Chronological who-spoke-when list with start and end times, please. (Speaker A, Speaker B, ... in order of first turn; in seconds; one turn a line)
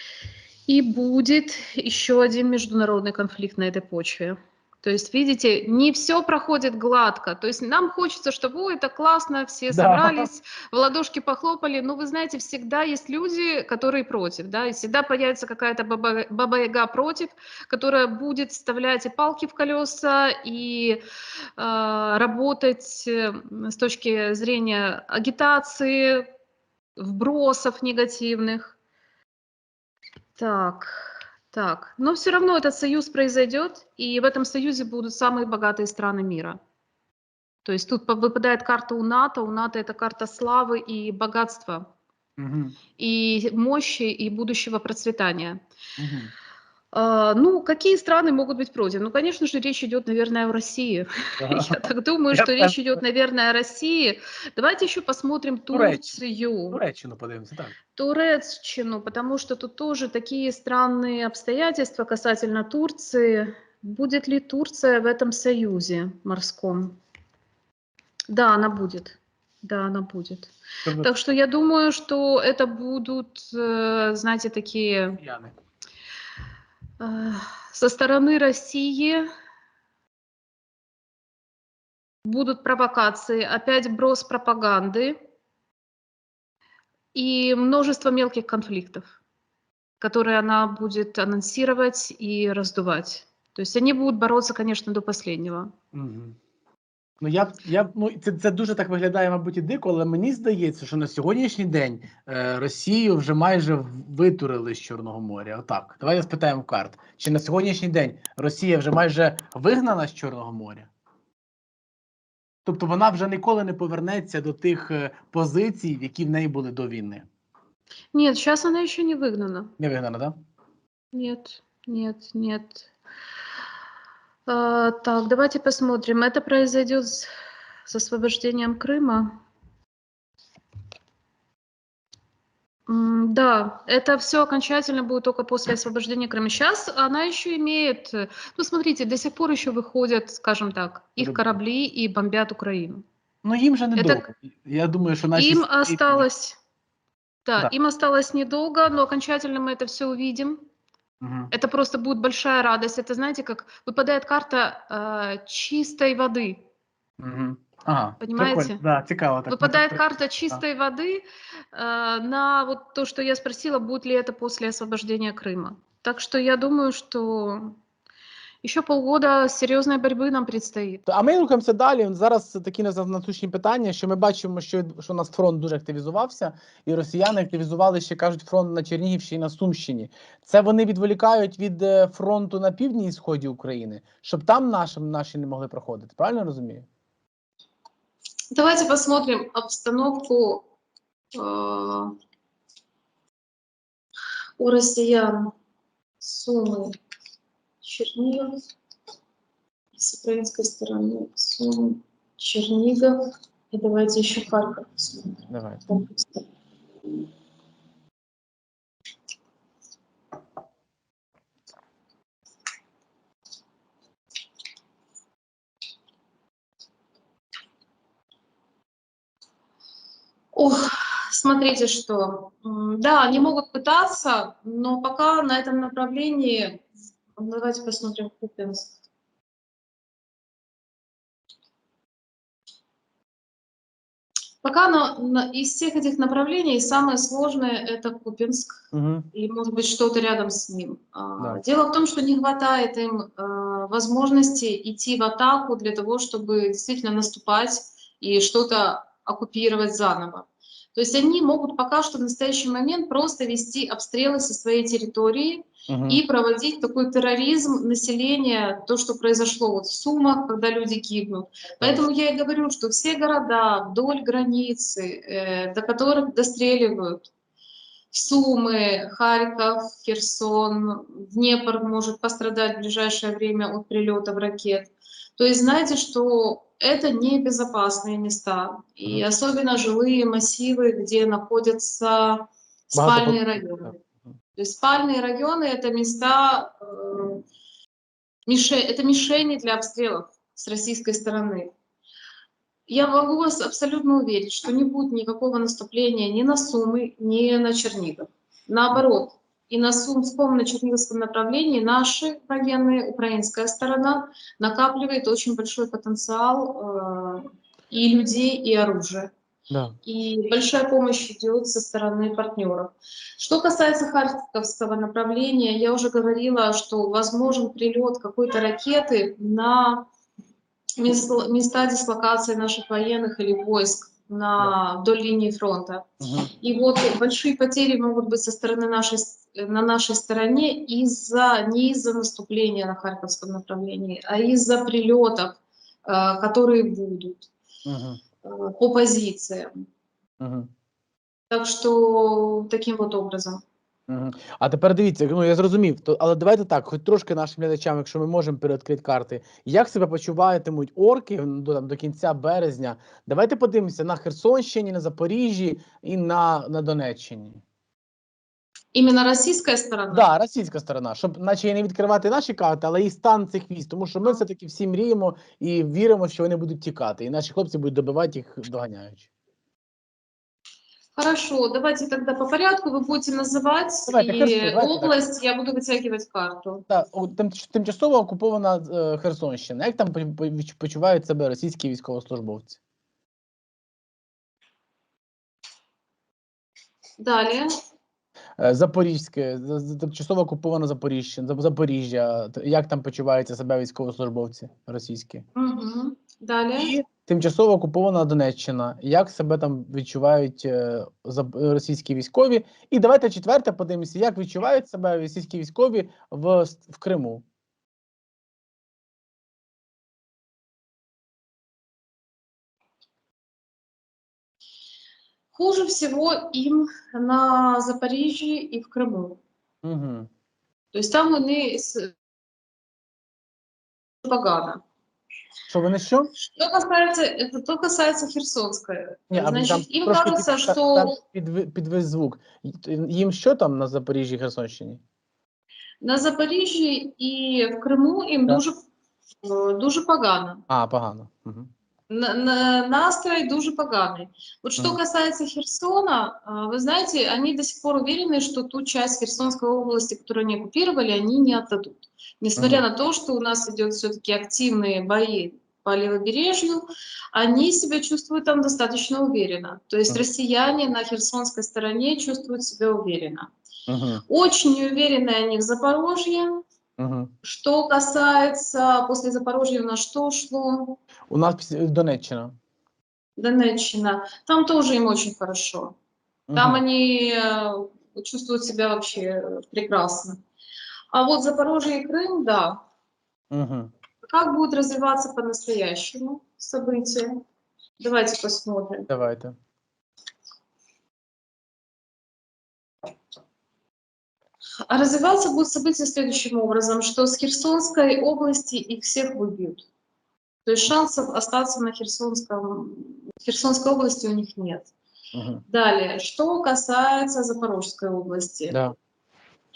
Speaker A: 0.7-21.0
Speaker B: 9.7-10.3
Speaker A: 21.6-26.3
Speaker A: 27.0-28.8
Speaker A: 30.4-36.6
Speaker A: 37.6-41.9
Speaker B: 42.4-42.8
Speaker A: 43.0-45.6
Speaker B: 46.0-46.3
Speaker A: 46.9-56.8
Speaker B: 51.4-53.0
Speaker B: 55.7-56.2
Speaker B: 56.7-57.7
Speaker A: 58.0-67.0
Speaker A: 68.3-75.2
Speaker B: 75.2-75.5
Speaker A: 77.0-79.3
Speaker A: 82.2-85.2
Speaker A: 87.1-89.1
Speaker A: 90.0-95.7
Speaker B: 95.9-96.4
Speaker B: 97.2-110.9
Speaker B: 112.7-117.2
Speaker A: 118.1-119.7
Speaker B: 119.8-120.3
Speaker A: 121.1-122.9
Speaker A: 124.5-127.3
Speaker A: 127.9-129.4
Speaker A: 132.9-143.0
Speaker B: 141.2-141.5
Speaker B: 143.4-146.3
Speaker A: 144.0-144.3
Speaker A: 145.3-146.6
Speaker A: 147.4-150.6
Speaker B: 151.2-151.5
Speaker A: 151.5-156.6
Speaker B: 157.2-160.6
Speaker A: 158.2-158.8
Speaker A: 159.5-167.8
Speaker A: 168.6-171.0
Speaker B: 171.1-186.9
Speaker A: 188.5-190.7
Speaker A: 191.3-192.2
Speaker A: 194.6-195.5
Speaker A: 196.2-197.0
Speaker A: 197.8-198.7
Speaker A: 199.9-206.4
Speaker B: 205.5-205.8
Speaker A: 220.5-226.8
Speaker A: 227.4-229.0
Speaker A: 234.6-238.8
Speaker B: 238.9-239.3
Speaker A: 239.3-267.3
Speaker B: 255.9-256.2
Speaker B: 261.8-262.1
Speaker A: 268.1-284.0
Speaker B: 282.9-283.9
Speaker A: 284.5-287.4
Speaker A: 288.5-291.7
Speaker A: 292.9-309.3
Speaker B: 309.7-309.9
Speaker A: 310.0-320.1
Speaker A: 321.0-337.5
Speaker B: 326.2-326.5
Speaker B: 337.9-338.2
Speaker A: 338.4-339.9
Speaker B: 340.4-340.7
Speaker A: 341.5-343.6
Speaker B: 344.1-357.6
Speaker A: 358.9-360.3
Speaker B: 360.1-369.3
Speaker A: 371.1-376.8
Speaker B: 374.1-375.1
Speaker B: 376.9-382.8
Speaker A: 387.2-387.7
Speaker B: 388.6-395.4
Speaker A: 395.5-396.9
Speaker B: 396.8-407.4
Speaker A: 415.5-419.4
Speaker B: 419.8-420.3
Speaker A: 420.9-422.1
Speaker A: 424.2-424.8
Speaker B: 425.7-426.3
Speaker A: 426.4-431.2
Speaker B: 429.3-435.0
Speaker A: 436.0-438.8
Speaker A: 439.4-440.6
Speaker B: 440.7-441.7
Speaker A: 442.1-463.5
Speaker B: 452.6-452.8
Speaker B: 463.9-464.2
Speaker A: 464.3-466.6
Speaker B: 467.0-467.3
Speaker A: 467.4-471.0
Speaker B: 471.3-472.6
Speaker A: 473.4-475.9
Speaker B: 476.5-476.8
Speaker A: 476.5-480.4
Speaker A: 481.1-482.8
Speaker B: 483.5-483.9
Speaker A: 484.2-487.4
Speaker A: 488.0-489.1
Speaker B: 489.1-489.6
Speaker A: 494.9-499.8
Speaker A: 500.6-504.9
Speaker B: 505.3-505.6
Speaker A: 505.7-508.8
Speaker B: 508.7-508.9